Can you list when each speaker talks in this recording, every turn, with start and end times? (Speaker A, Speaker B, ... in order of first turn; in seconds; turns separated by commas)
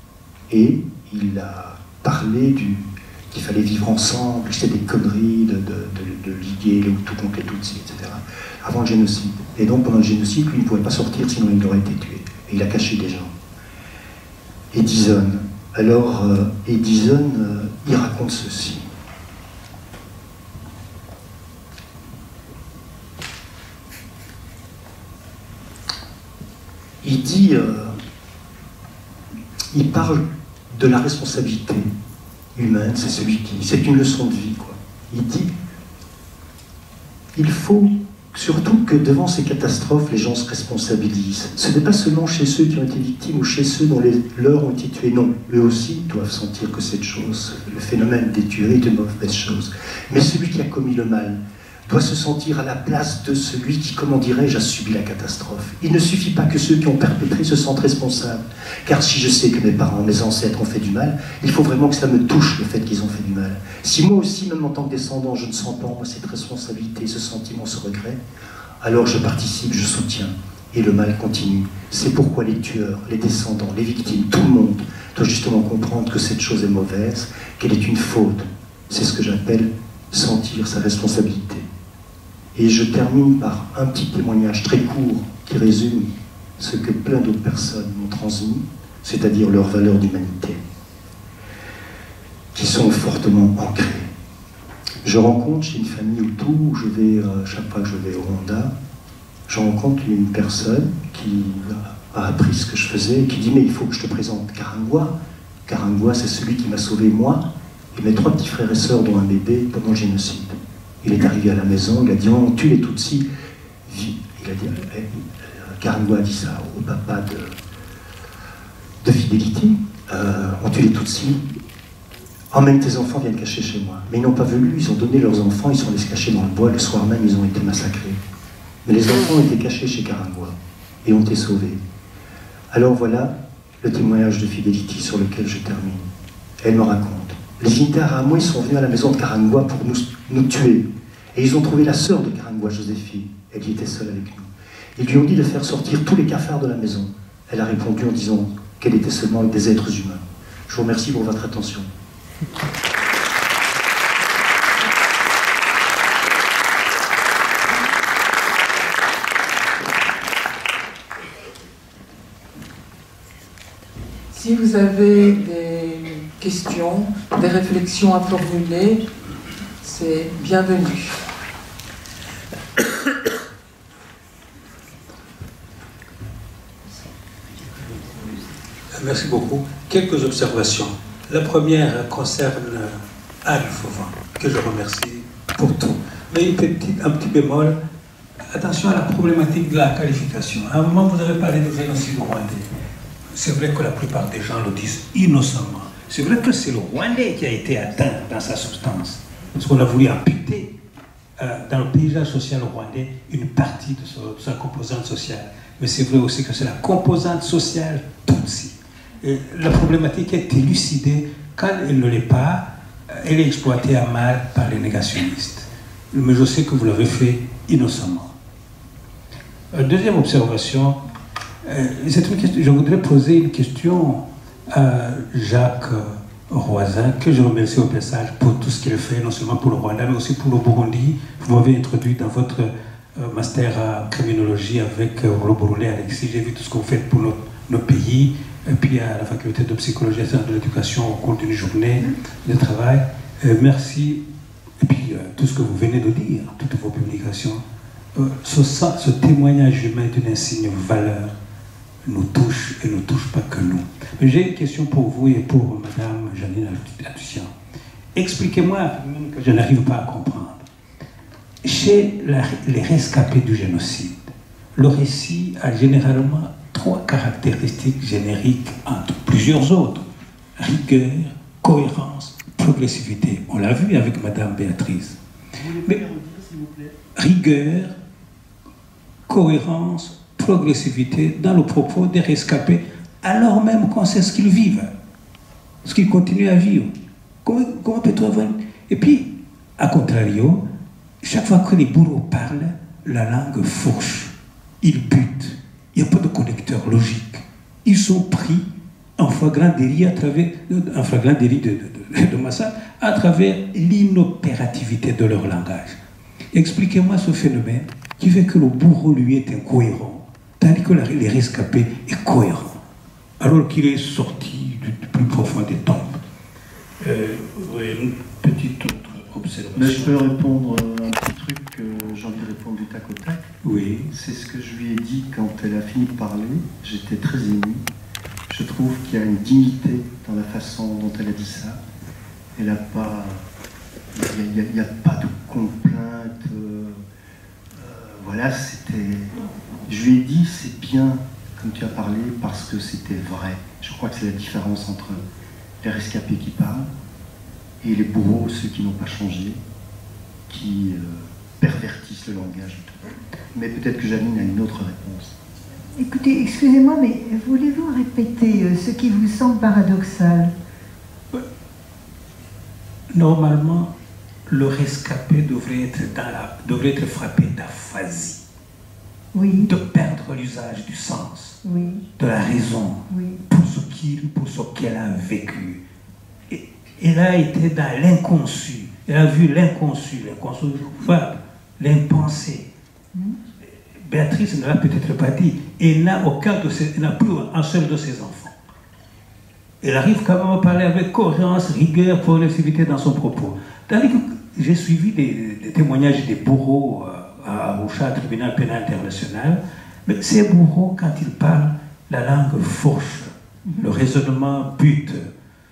Speaker A: 0.5-13.3, Speaker A: 14.7-18.9, Speaker A: 27.0-28.0, Speaker A: 29.7-31.9, Speaker A: 32.5-35.5, Speaker A: 37.3-68.2, Speaker A: 68.8-81.7, Speaker A: 82.5-90.6, Speaker A: 92.5-94.1, Speaker A: 95.0-98.7, Speaker A: 99.5-105.1, Speaker A: 105.7-113.2, Speaker A: 113.9-117.5, Speaker A: 119.0-121.4, Speaker A: 122.5-128.2, Speaker A: 128.8-131.8, Speaker A: 132.7-136.1, Speaker A: 136.6-151.9, Speaker B: 164.3-169.0, Speaker B: 169.8-171.2, Speaker C: 178.9-187.8, Speaker C: 188.5-192.7, Speaker C: 193.3-200.7, Speaker C: 201.4-218.3, Speaker C: 219.7-221.0, Speaker C: 221.6-244.2, Speaker C: 244.8-247.6, Speaker C: 248.1-251.3, Speaker C: 252.0-257.5, Speaker C: 258.1-260.6, Speaker C: 261.6-270.0, Speaker C: 270.6-275.2, Speaker A: 275.6-276.9, Speaker C: 275.7-276.0, Speaker C: 277.1-277.9, Speaker C: 279.3-284.9, Speaker C: 285.8-286.9, Speaker C: 287.4-290.6, Speaker C: 291.2-306.0, Speaker C: 306.5-312.8, Speaker C: 313.4-316.2, Speaker C: 317.0-320.2, Speaker A: 319.8-323.4, Speaker C: 323.6-324.1, Speaker A: 324.1-327.8, Speaker A: 328.5-331.8, Speaker A: 332.6-333.4, Speaker A: 334.1-337.0, Speaker A: 337.8-339.3, Speaker A: 339.9-345.2, Speaker A: 345.8-346.9, Speaker A: 347.8-349.6, Speaker A: 350.5-353.0, Speaker A: 353.5-355.3, Speaker D: 356.0-360.5, Speaker C: 363.1-363.9, Speaker C: 364.5-368.4, Speaker D: 369.3-369.7, Speaker C: 369.6-371.6, Speaker D: 371.6-372.0, Speaker C: 372.2-375.8, Speaker D: 373.1-373.4, Speaker C: 376.5-382.7, Speaker C: 384.0-388.5, Speaker C: 389.8-405.3, Speaker D: 403.7-404.0